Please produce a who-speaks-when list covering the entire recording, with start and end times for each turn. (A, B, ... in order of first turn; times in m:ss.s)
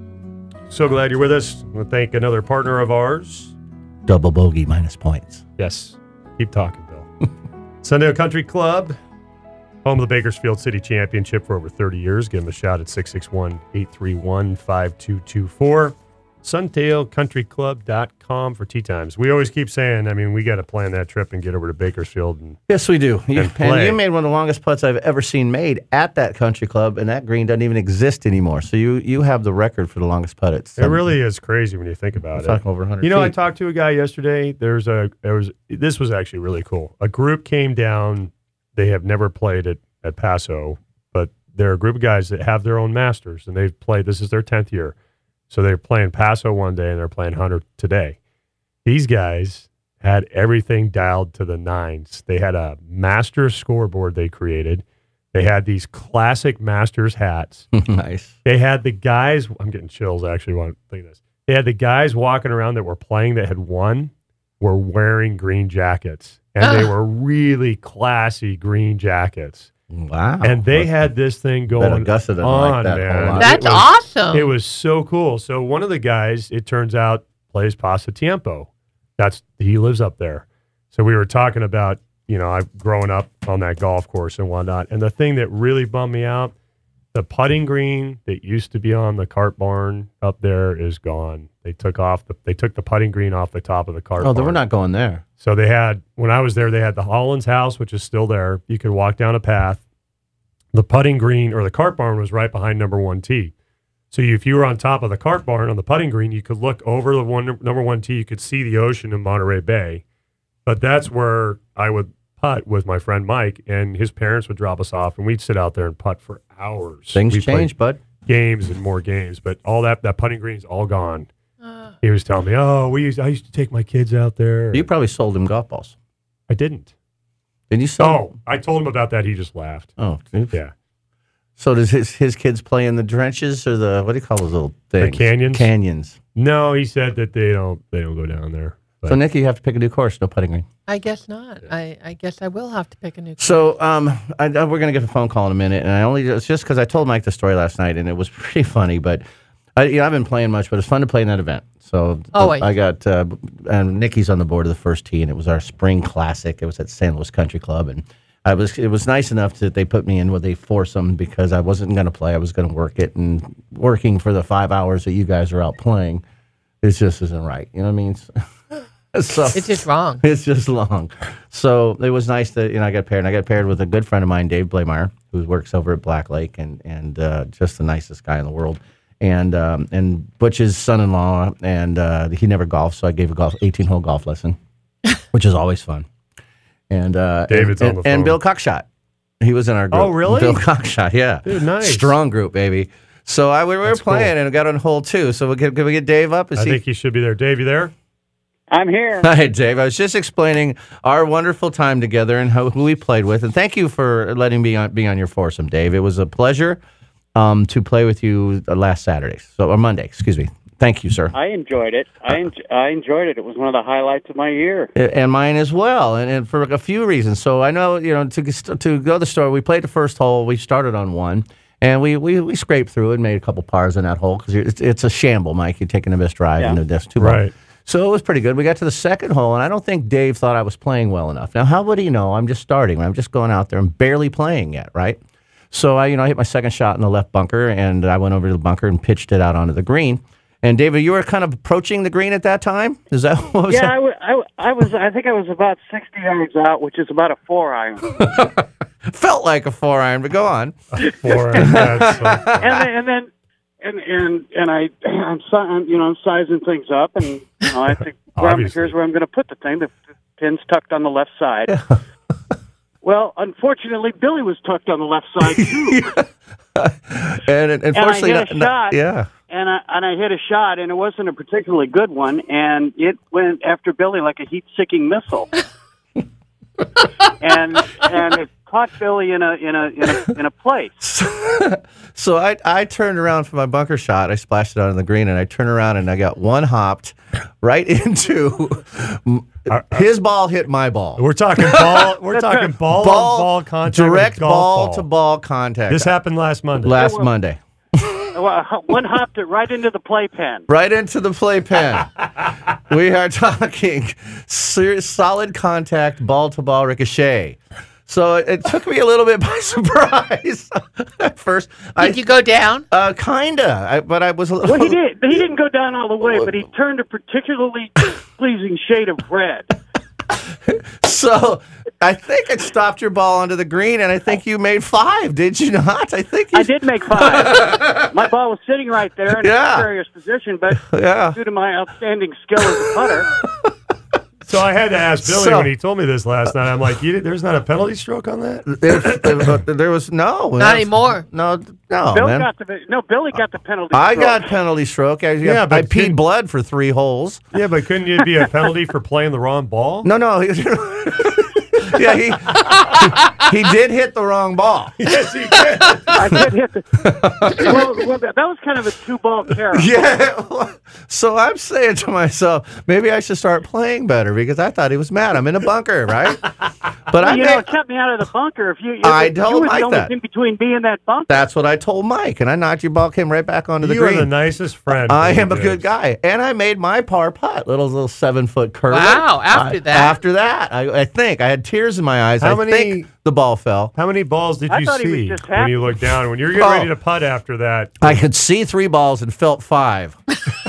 0:00.7-0:03.5 A
0:04.1-0:05.4 B
0:05.6-0:07.1 A
0:07.8-0:09.0 A
0:09.8-0:22.6 A
0:22.7-0:31.1 B
0:23.3-0:24.0 A
0:30.8-0:45.0 A
0:32.4-0:33.3 B
0:45.5-0:48.2 A
0:48.8-0:57.7 A
0:57.7-0:58.4 B
0:58.4-1:09.7 A
1:06.6-1:06.9 C
1:09.9-1:10.9 B
1:10.4-1:26.5 A
1:11.8-1:13.8 B
1:13.3-1:14.5 C
1:27.1-1:34.6 A
1:34.2-1:35.2 B
1:35.4-1:39.8 A
1:40.7-1:43.5 A
1:44.1-1:50.0 A
1:50.7-2:01.3 A
1:57.1-1:58.0 B
2:02.0-2:04.9 A
2:04.7-2:06.0 B
2:06.5-2:06.9 A
2:07.7-2:08.2 B
2:08.0-2:09.9 A
2:10.0-2:10.6 B
2:11.6-2:16.2 B
2:15.0-2:15.7 A
2:16.4-2:19.2 A
2:19.1-2:20.7 B
2:20.9-2:23.6 C
2:23.4-2:29.2 B
2:29.8-2:46.2 B
2:32.3-2:32.7 C
2:46.8-2:48.3 B
2:49.1-3:04.6 B
2:49.5-2:50.2 C
3:05.3-3:06.1 B
3:06.9-3:08.9 B
3:07.5-3:08.4 A
3:09.4-3:16.8 B
3:09.9-3:10.6 A
3:11.4-3:12.2 A
3:13.9-3:14.3 A
3:16.6-3:17.9 A
3:18.7-3:19.3 D
3:19.2-3:26.8 B
3:27.4-3:31.3 B
3:31.3-3:34.9 D
3:35.0-3:55.2 B
3:47.2-3:47.5 A
3:55.7-4:03.9 B
4:03.7-4:08.2 D
4:08.1-4:11.0 B
4:11.0-4:12.8 A
4:11.5-4:12.7 B
4:12.6-4:13.3 D
4:13.8-4:21.8 D
4:18.4-4:18.9 A
4:21.7-4:22.0 B
4:23.0-4:26.0 D
4:25.4-4:26.2 B
4:26.8-4:29.3 B
4:28.0-4:29.0 D
4:29.5-4:35.5 D
4:37.4-4:41.0 D
4:41.0-4:52.1 B
4:49.7-4:50.0 A
4:51.2-4:55.1 A
4:52.3-4:52.7 D
4:52.9-4:56.1 B
4:55.9-4:57.0 A
4:56.8-4:58.3 B
4:56.9-4:57.3 D
4:58.3-5:00.6 D
5:00.7-5:02.3 B
5:02.9-5:12.3 B
5:12.0-5:12.8 C
5:12.9-5:15.0 B
5:14.6-5:19.7 D
5:20.4-5:28.2 B
5:26.5-5:33.3 D
5:29.4-5:29.9 B
5:30.8-5:31.4 B
5:32.8-5:33.7 B
5:34.4-5:39.6 A
5:35.2-5:35.7 B
5:38.7-5:42.5 B
5:40.6-5:41.2 C
5:42.1-5:44.5 D
5:43.9-5:47.4 B
5:45.4-5:46.2 A
5:47.5-5:50.1 A
5:50.0-5:55.0 B
5:55.0-5:56.4 A
5:55.8-5:56.4 B
5:56.1-5:57.0 D
5:57.0-5:57.8 B
5:57.6-6:00.0 D
5:59.7-6:06.6 B
6:07.1-6:07.7 B
6:07.2-6:11.4 D
6:09.0-6:10.1 B
6:11.3-6:14.3 B
6:13.8-6:15.9 A
6:15.0-6:23.9 B
6:18.9-6:20.2 C
6:22.4-6:23.1 A
6:23.9-6:28.2 A
6:24.7-6:25.8 D
6:26.5-6:26.9 B
6:28.0-6:30.2 B